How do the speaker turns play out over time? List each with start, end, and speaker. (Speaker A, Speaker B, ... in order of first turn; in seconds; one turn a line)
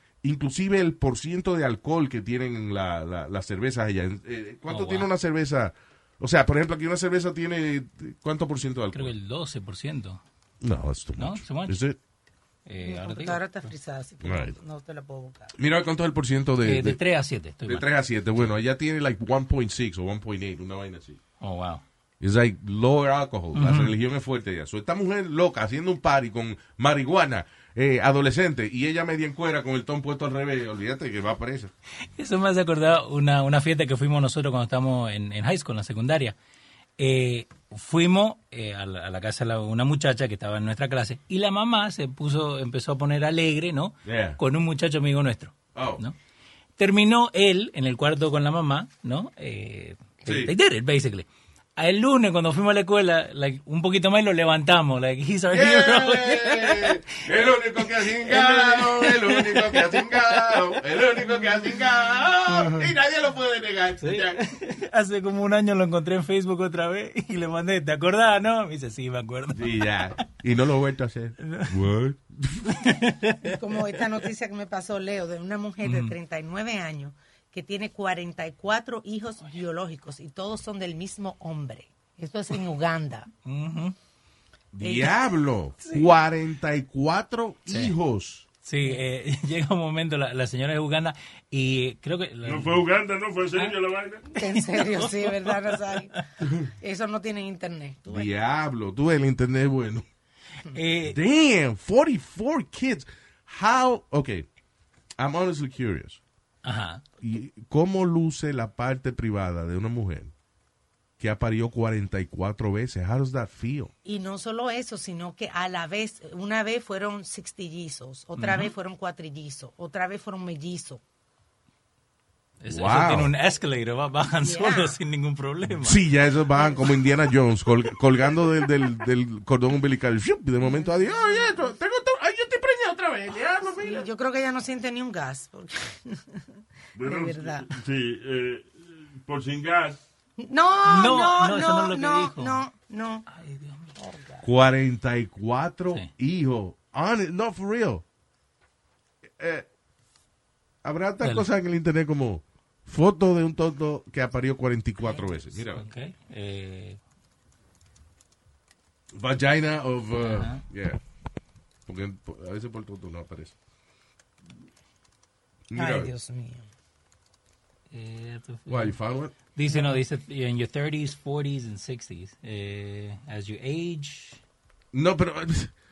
Speaker A: 0.2-9.1
Speaker B: 4.7-5.1
Speaker B: 8.9-10.2
Speaker A: 10.6-12.0
Speaker B: 11.2-11.8
Speaker B: 12.7-13.7
Speaker C: 12.8-15.5
Speaker A: 14.2-14.6
Speaker A: 15.6-17.0
Speaker B: 16.6-18.5
Speaker A: 17.7-21.2
Speaker B: 21.4-21.8
Speaker A: 22.2-31.7
Speaker B: 23.5-23.9
Speaker B: 32.2-36.4
Speaker B: 37.0-46.2
Speaker A: 44.1-44.4
Speaker A: 45.8-46.0
Speaker B: 46.8-57.0
Speaker A: 50.2-50.5
Speaker A: 55.5-64.4
Speaker B: 57.8-60.8
Speaker B: 62.5-62.9
Speaker B: 64.0-70.0
Speaker A: 69.5-72.8
Speaker B: 71.4-71.8
Speaker B: 72.7-73.5
Speaker C: 73.5-83.3
Speaker B: 75.8-76.1
Speaker B: 83.5-84.0
Speaker A: 84.7-88.5
Speaker B: 87.7-88.0
Speaker B: 88.6-92.9
Speaker D: 92.5-94.2
Speaker C: 94.3-96.1
Speaker B: 94.4-96.0
Speaker C: 96.8-98.3
Speaker A: 98.1-100.1
Speaker B: 100.7-101.2
Speaker A: 101.0-104.5
Speaker A: 105.2-106.2
Speaker B: 106.6-107.0
Speaker A: 107.2-110.3
Speaker A: 111.2-113.9
Speaker C: 114.0-121.0
Speaker B: 118.4-118.7
Speaker B: 122.6-126.0
Speaker A: 122.7-123.3
Speaker C: 124.4-125.0
Speaker A: 125.7-134.1
Speaker C: 130.7-131.5
Speaker C: 133.8-136.5
Speaker D: 137.0-140.0
Speaker C: 137.0-137.7
Speaker C: 140.4-143.2
Speaker B: 140.9-142.6
Speaker B: 143.3-143.9
Speaker C: 144.0-144.5
Speaker A: 144.4-148.0
Speaker A: 149.4-149.7
Speaker A: 150.8-155.8
Speaker B: 155.5-157.0
Speaker A: 159.1-161.0
Speaker B: 160.2-160.6
Speaker A: 161.9-163.6
Speaker A: 165.7-166.1
Speaker C: 165.8-166.7
Speaker B: 167.9-169.0
Speaker A: 168.7-169.3
Speaker B: 169.5-174.4
Speaker C: 169.7-170.0
Speaker A: 174.9-175.7